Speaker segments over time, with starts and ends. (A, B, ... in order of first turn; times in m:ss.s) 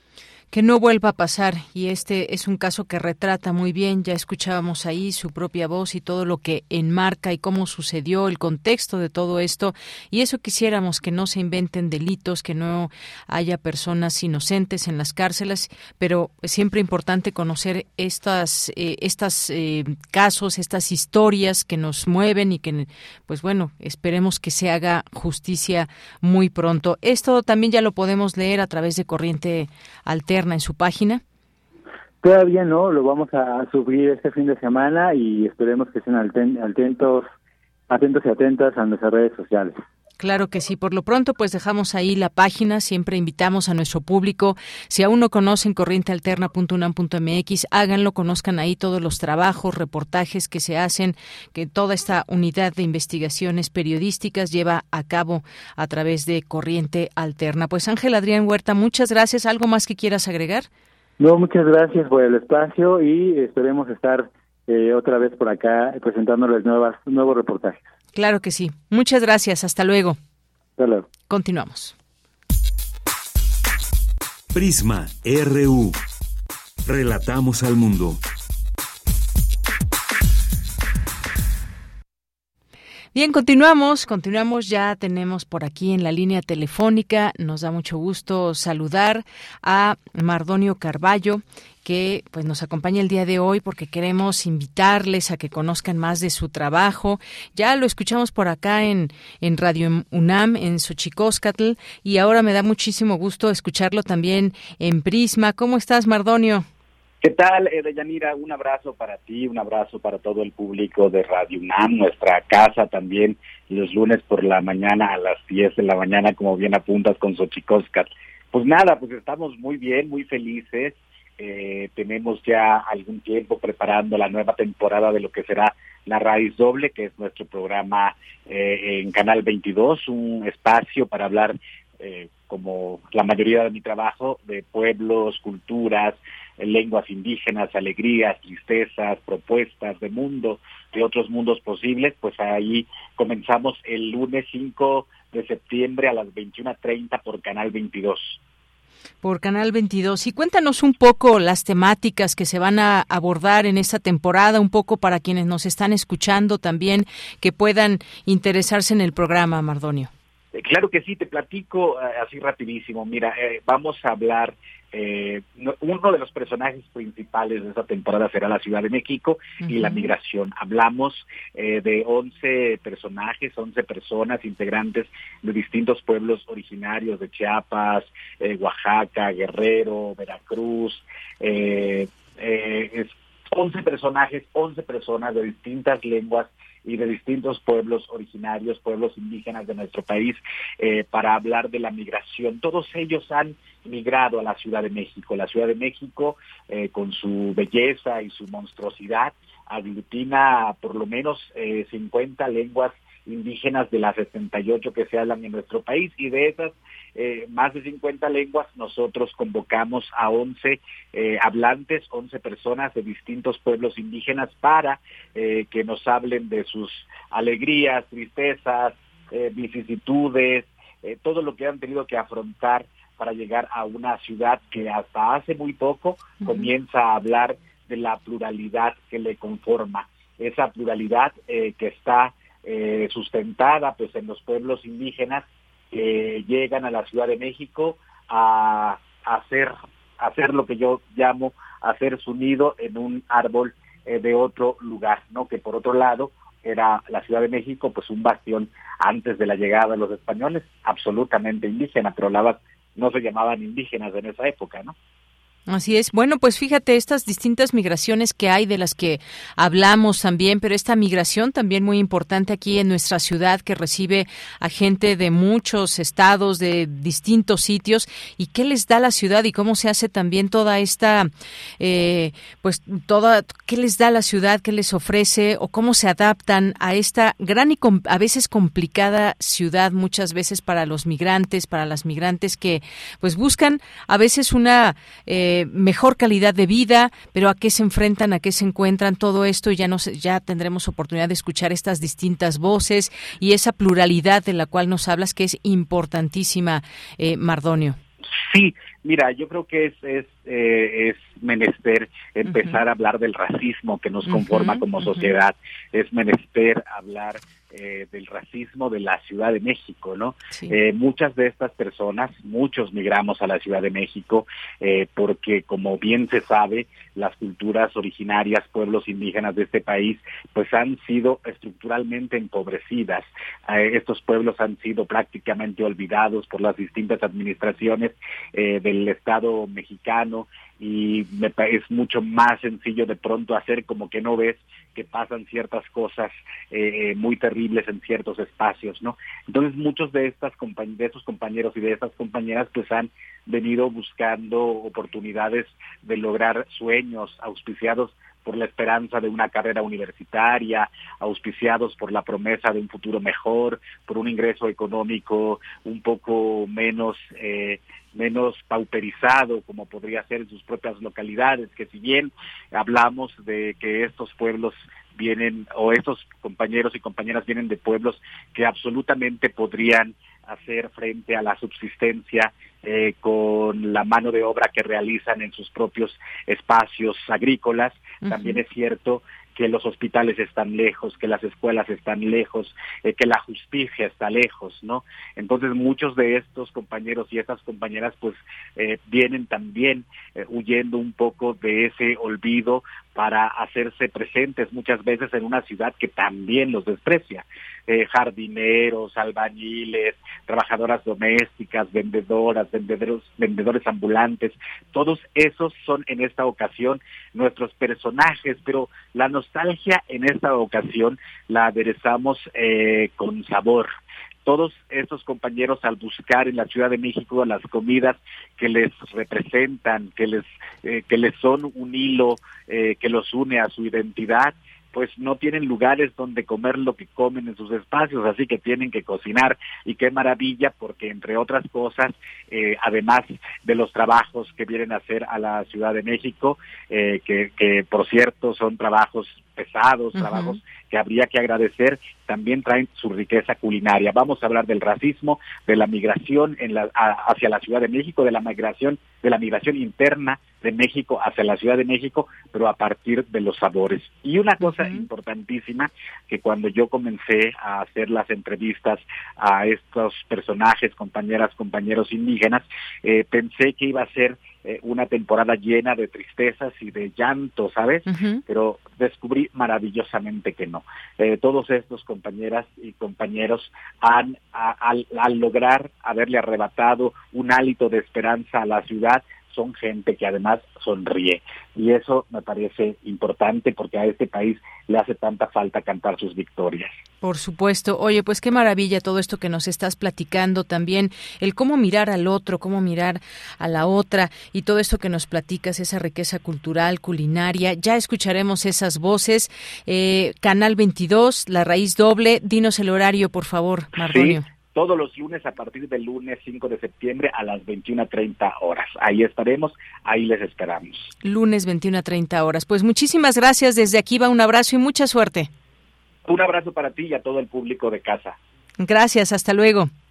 0:00.5-0:31.2 A
0:32.2-0:37.3 B
0:37.9-0:39.7 B
0:40.2-1:00.7 A
1:01.2-1:07.8 B
1:08.1-1:10.2 A
1:10.8-1:11.0 B
1:11.3-1:11.9 A
1:14.5-1:16.0 C
1:16.8-1:18.2 C
1:23.1-1:46.6 A
1:47.2-2:28.4 D
2:29.2-2:40.1 A
2:40.5-4:14.9 D
2:49.6-2:50.1 A
3:46.4-3:46.7 A
4:15.7-4:31.3 A
4:31.8-4:58.0 A
4:58.4-6:53.9 D
5:02.5-5:02.8 A
5:04.3-5:05.3 A
6:18.2-6:18.6 A
6:54.4-8:06.9 D
7:20.2-7:20.6 A
7:34.6-7:35.0 A
7:48.0-7:48.4 A
8:07.2-8:24.4 A
8:24.0-8:31.1 D
8:31.2-8:35.5 A
8:36.2-8:38.4 D
8:38.8-8:39.9 A